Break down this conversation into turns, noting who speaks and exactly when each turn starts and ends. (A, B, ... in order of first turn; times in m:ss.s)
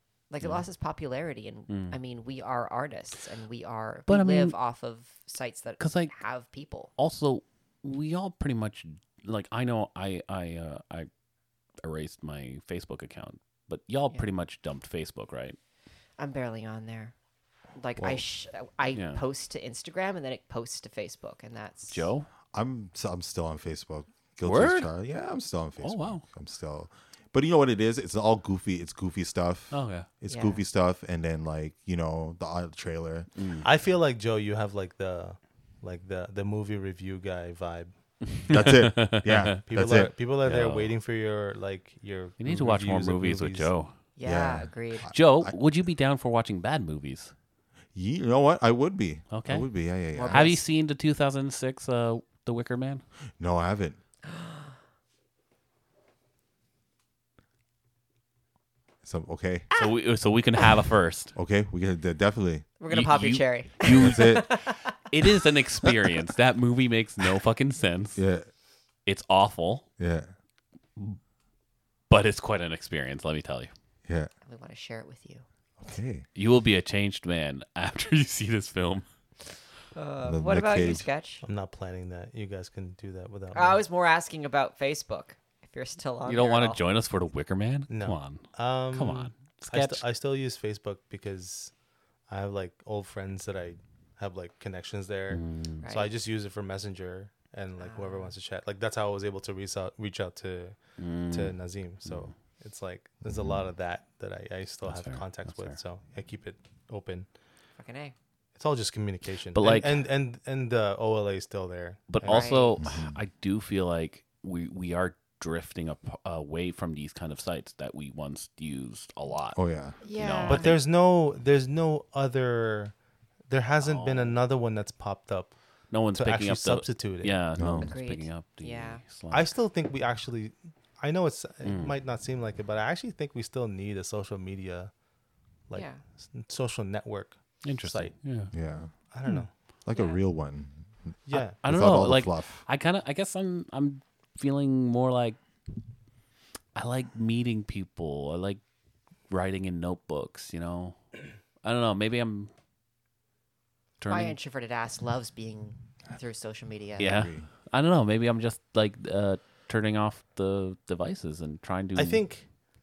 0:00.3-0:06.9 A
0:01.7-0:02.0 B
0:04.1-0:04.6 B
0:05.8-0:06.1 B
0:07.0-0:11.1 B
0:11.8-0:15.6 B
0:16.2-0:17.1 A
0:17.8-0:22.1 A
0:18.9-0:19.2 B
0:21.9-0:22.3 B
0:22.5-0:33.3 C
0:24.4-0:24.9 B
0:25.8-0:26.2 B
0:29.7-0:30.1 B
0:30.3-0:30.6 A
0:33.4-0:33.7 B
0:33.6-0:37.9 D
0:38.3-0:40.9 B
0:38.5-0:40.1 C
0:39.6-0:43.7 D
0:42.4-0:43.9 B
0:44.2-0:45.1 A
0:44.2-0:45.5 C
0:45.1-0:47.3 B
0:47.9-0:50.5 C
0:49.3-0:49.7 B
0:50.1-0:50.6 A
0:50.2-0:53.0 B
0:53.4-0:54.0 C
0:54.3-0:54.7 A
0:59.0-0:59.7 C
0:59.8-1:01.3 B
1:01.4-1:02.7 C
1:02.8-1:04.9 A
1:02.9-1:04.5 B
1:03.9-1:04.5 C
1:05.1-1:08.2 B
1:08.2-1:08.5 C
1:09.0-1:09.9 B
1:10.0-1:10.3 C
1:12.1-1:13.7 B
1:14.4-1:15.4 A
1:15.8-1:16.2 C
1:16.3-1:19.0 B
1:19.9-1:21.4 A
1:20.2-1:21.1 C
1:21.4-1:23.8 D
1:23.5-1:26.8 A
1:26.2-1:30.0 B
1:27.9-1:31.7 D
1:32.3-1:47.3 D
1:35.3-1:35.8 B
1:35.8-1:36.1 A
1:37.8-1:38.3 A
1:41.0-1:42.3 B
1:43.2-1:43.6 C
1:44.8-1:45.8 B
1:47.8-1:48.1 A
1:48.6-1:52.7 D
1:49.5-1:50.0 B
1:52.1-1:59.6 B
1:52.2-1:52.7 A
1:52.8-1:53.2 C
1:59.5-2:00.0 C
2:00.0-2:00.8 A
2:00.1-2:00.7 B
2:00.5-2:03.0 D
2:03.5-2:05.6 D
2:03.8-2:04.4 B
2:05.9-2:09.5 B
2:06.1-2:07.4 D
2:07.6-2:07.9 C
2:07.7-2:09.0 A
2:09.3-2:14.9 D
2:11.6-2:11.9 B
2:15.7-2:18.1 D
2:15.7-2:16.0 A
2:17.6-2:18.5 B
2:18.5-2:18.9 C
2:19.1-2:19.5 D
2:19.8-2:22.6 C
2:19.9-2:20.2 A
2:21.3-2:21.6 D
2:21.4-2:25.4 B
2:26.7-2:28.6 B
2:29.3-2:31.0 B
2:31.6-2:32.5 B
2:34.0-2:34.4 B
2:34.1-2:37.2 A
2:37.0-2:37.5 C
2:37.0-2:42.2 B
2:41.9-2:42.4 D